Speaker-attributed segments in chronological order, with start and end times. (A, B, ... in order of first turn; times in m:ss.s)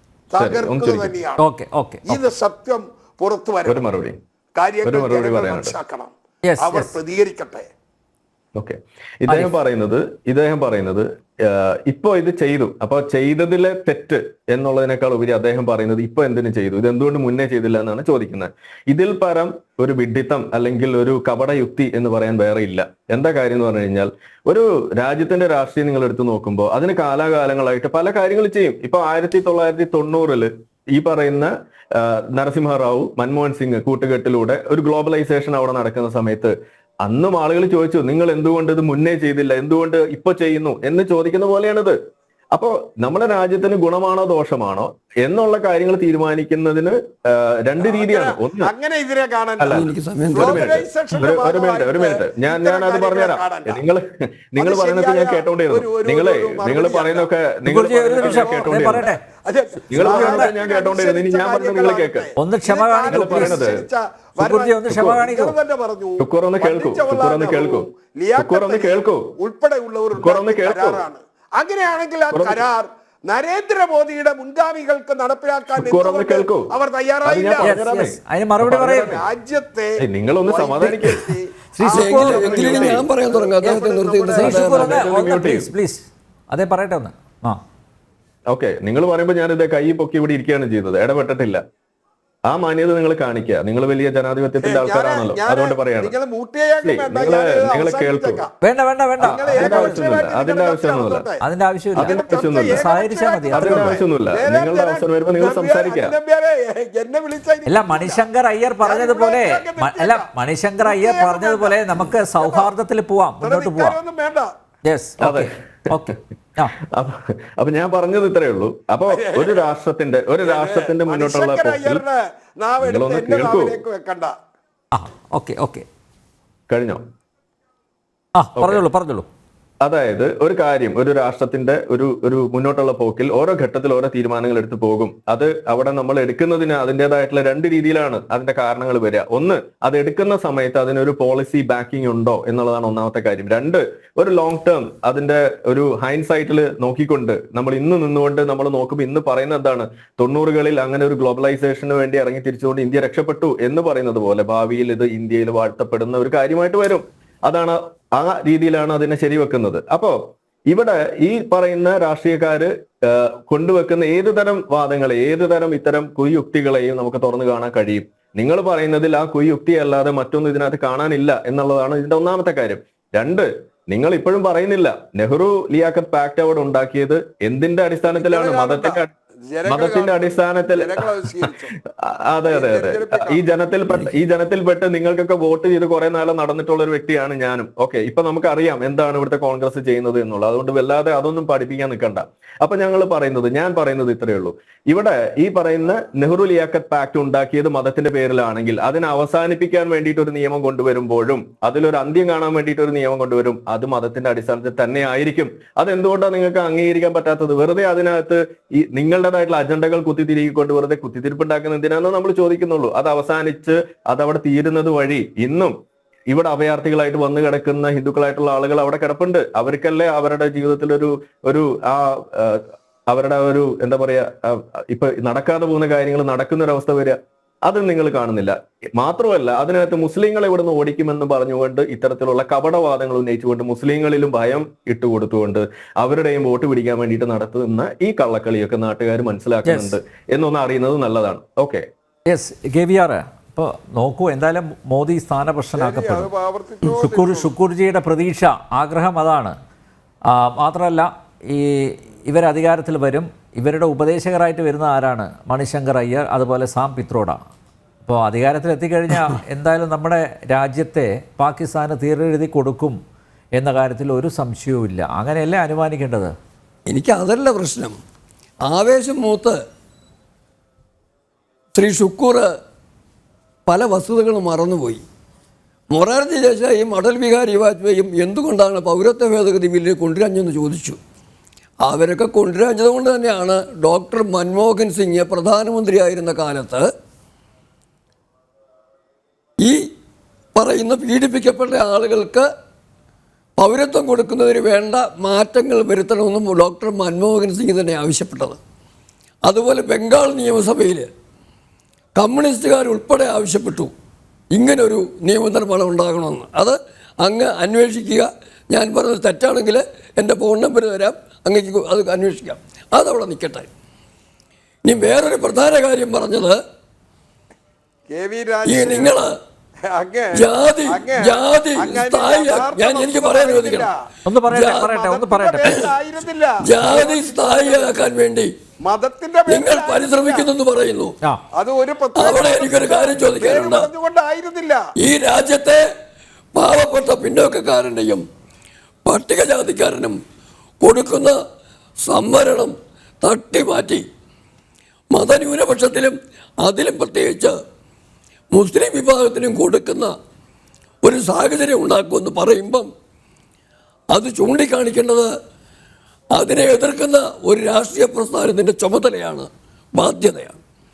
0:00.3-0:01.4 A
0:00.4-0:01.2 B
0:01.4-0:02.2 C
0:02.1-0:03.8 A
0:03.7-0:04.2 B
0:04.6-0:07.7 A
0:04.8-0:05.7 B
0:06.4-0:06.9 C
0:08.6-0:42.0 B
0:42.5-0:48.7 B
0:47.8-0:53.8 A
0:49.6-0:59.1 B
0:49.7-0:50.7 D
0:54.6-0:57.3 A
0:57.7-0:59.2 C
0:58.1-1:17.8 A
0:59.9-1:02.3 B
1:00.0-1:00.5 C
1:02.4-1:03.6 C
1:03.1-1:03.9 B
1:04.4-1:05.6 C
1:04.9-1:05.2 B
1:06.2-1:09.3 B
1:10.2-1:11.0 B
1:12.3-1:12.7 B
1:15.8-1:16.7 B
1:17.2-1:19.2 B
1:17.6-1:19.2 C
1:19.0-1:25.2 A
1:20.0-1:21.3 B
1:21.7-1:22.5 C
1:21.9-1:25.0 D
1:22.1-1:23.1 B
1:24.4-1:27.6 C
1:24.7-1:25.7 B
1:28.5-1:31.6 B
1:32.5-1:36.1 B
1:34.6-1:38.5 A
1:36.8-1:38.4 B
1:38.6-1:40.0 C
1:39.2-1:41.4 A
1:39.2-1:41.3 B
1:41.4-1:43.9 C
1:42.0-1:42.8 B
1:42.0-1:48.2 A
1:43.5-1:46.1 B
1:47.7-1:54.0 C
1:48.8-1:51.8 A
1:52.4-1:52.7 A
1:53.4-1:54.5 A
1:54.8-1:56.7 C
1:55.2-1:55.5 B
1:56.9-2:02.0 B
1:59.1-1:59.6 A
2:00.4-2:04.3 A
2:02.8-2:03.8 B
2:04.9-2:05.9 C
2:06.7-2:07.0 B
2:08.4-2:09.3 C
2:08.6-2:08.8 B
2:09.8-2:59.1 B
2:58.0-3:01.7 A
2:59.7-3:01.5 B
3:02.1-3:35.7 B
3:02.5-3:03.4 A
3:36.3-4:01.8 B
3:59.6-4:00.0 C
4:02.3-4:06.3 C
4:05.8-4:07.5 A
4:06.9-4:09.6 C
4:10.3-4:17.4 C
4:18.0-4:23.0 C
4:23.6-4:26.3 C
4:26.9-4:28.0 D
4:28.7-4:29.6 D
4:31.8-4:32.4 D
4:33.7-4:35.0 D
4:35.9-4:41.0 D
4:41.9-4:46.9 D
4:50.6-4:52.5 D
4:53.6-4:58.6 D
4:59.5-5:01.1 D
5:02.2-5:03.9 D
5:04.5-5:13.7 D
5:14.9-5:16.6 D
5:18.1-5:19.2 A
5:18.7-5:19.3 D
5:19.9-5:24.0 A
5:20.3-5:23.9 D
5:24.3-5:25.8 C
5:24.5-5:24.9 D
5:24.5-5:28.2 A
5:26.6-5:28.5 D
5:28.8-5:30.5 A
5:29.5-5:31.1 D
5:31.6-5:34.8 A
5:32.2-5:33.9 D
5:35.0-5:35.8 D
5:36.6-5:38.2 D
5:39.1-5:40.2 D
5:40.8-5:41.4 D
5:42.1-5:44.1 D
5:45.1-5:47.5 D
5:48.5-5:50.1 D
5:51.0-5:52.9 D
5:54.1-5:55.3 D
5:56.4-6:00.6 D